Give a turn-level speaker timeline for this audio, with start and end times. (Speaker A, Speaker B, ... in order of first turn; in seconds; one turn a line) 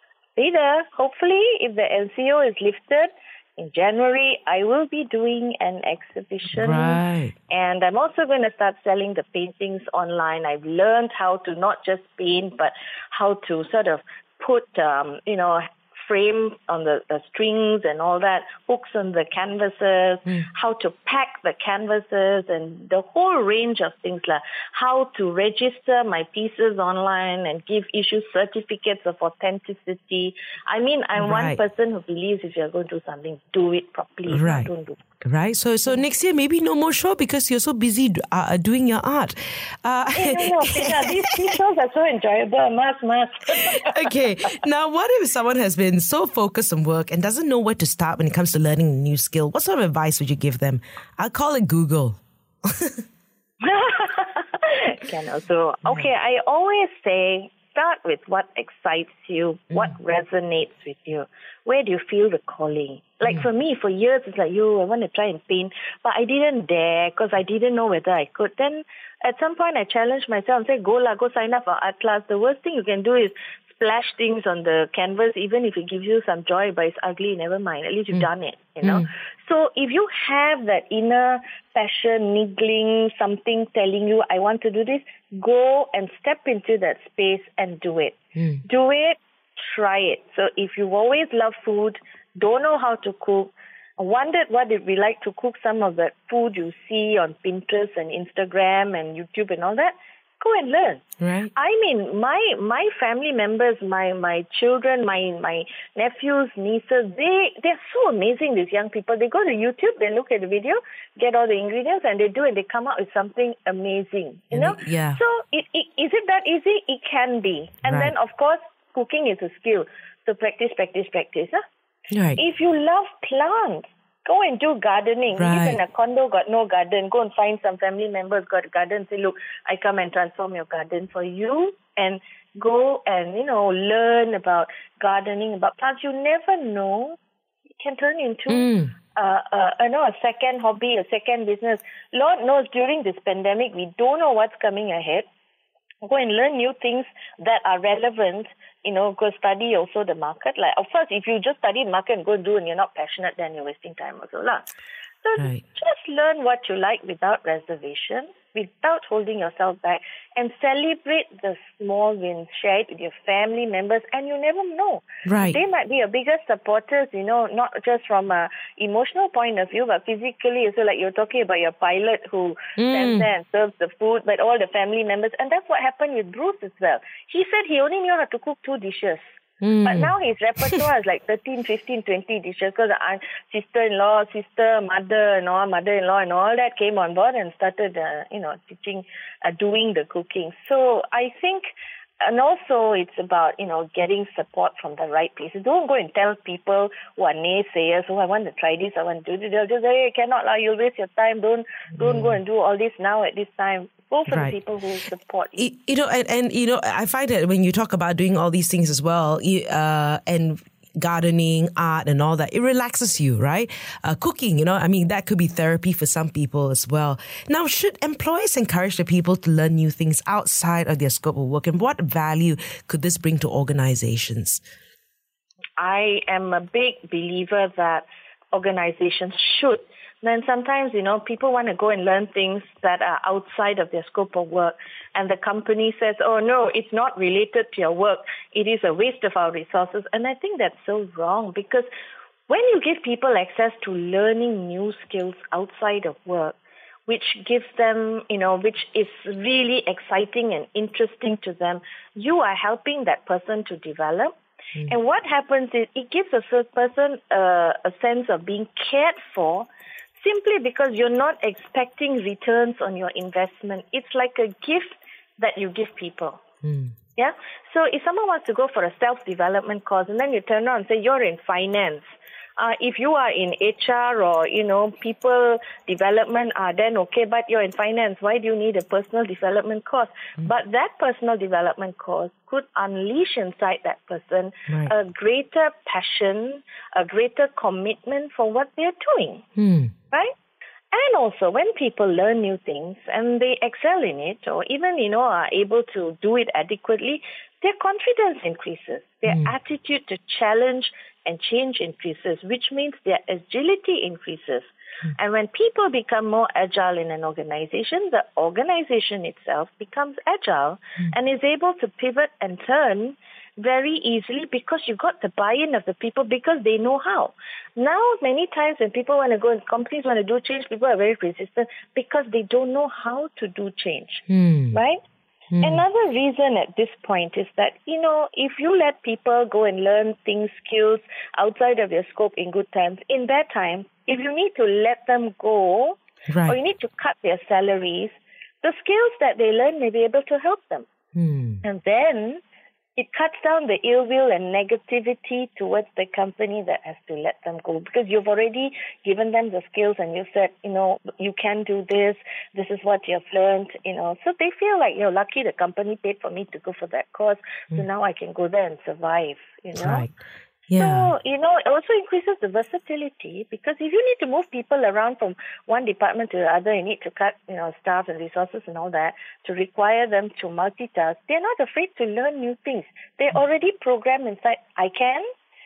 Speaker A: 0.4-35.0
Speaker B: 6.5-7.3
Speaker B: 31.2-31.6
Speaker B: 34.3-34.7
Speaker B: 35.2-41.5
Speaker A: 40.1-44.1
Speaker B: 43.6-53.0
Speaker A: 53.6-121.6
Speaker B: 78.8-79.1
Speaker B: 88.4-88.6
Speaker B: 101.2-101.5
Speaker B: 114.5-115.2
Speaker B: 117.8-118.1
Speaker B: 122.1-122.4
Speaker A: 122.4-137.2
Speaker B: 125.4-125.8
Speaker A: 137.8-145.3
Speaker B: 138.5-138.9
Speaker A: 146.0-154.7
Speaker A: 155.2-191.7
Speaker B: 155.4-155.6
Speaker B: 165.3-165.6
Speaker B: 172.8-173.3
Speaker B: 179.6-180.8
Speaker A: 192.2-205.7
Speaker B: 202.0-202.3
Speaker B: 204.3-204.5
Speaker B: 205.6-224.6
Speaker A: 225.8-241.9
Speaker A: 242.5-246.6
Speaker A: 247.1-254.3
Speaker A: 254.9-259.7
Speaker A: 260.2-266.4
Speaker B: 266.6-266.9
Speaker A: 267.2-289.5
Speaker B: 289.6-289.9
Speaker A: 290.9-325.0
Speaker B: 324.3-324.8
Speaker B: 325.5-325.8
Speaker A: 325.6-340.9
Speaker B: 336.3-336.6
Speaker B: 341.1-341.6
Speaker A: 341.6-342.4
Speaker A: 343.0-360.1
Speaker B: 359.8-360.1
Speaker B: 360.7-361.1
Speaker A: 360.8-375.3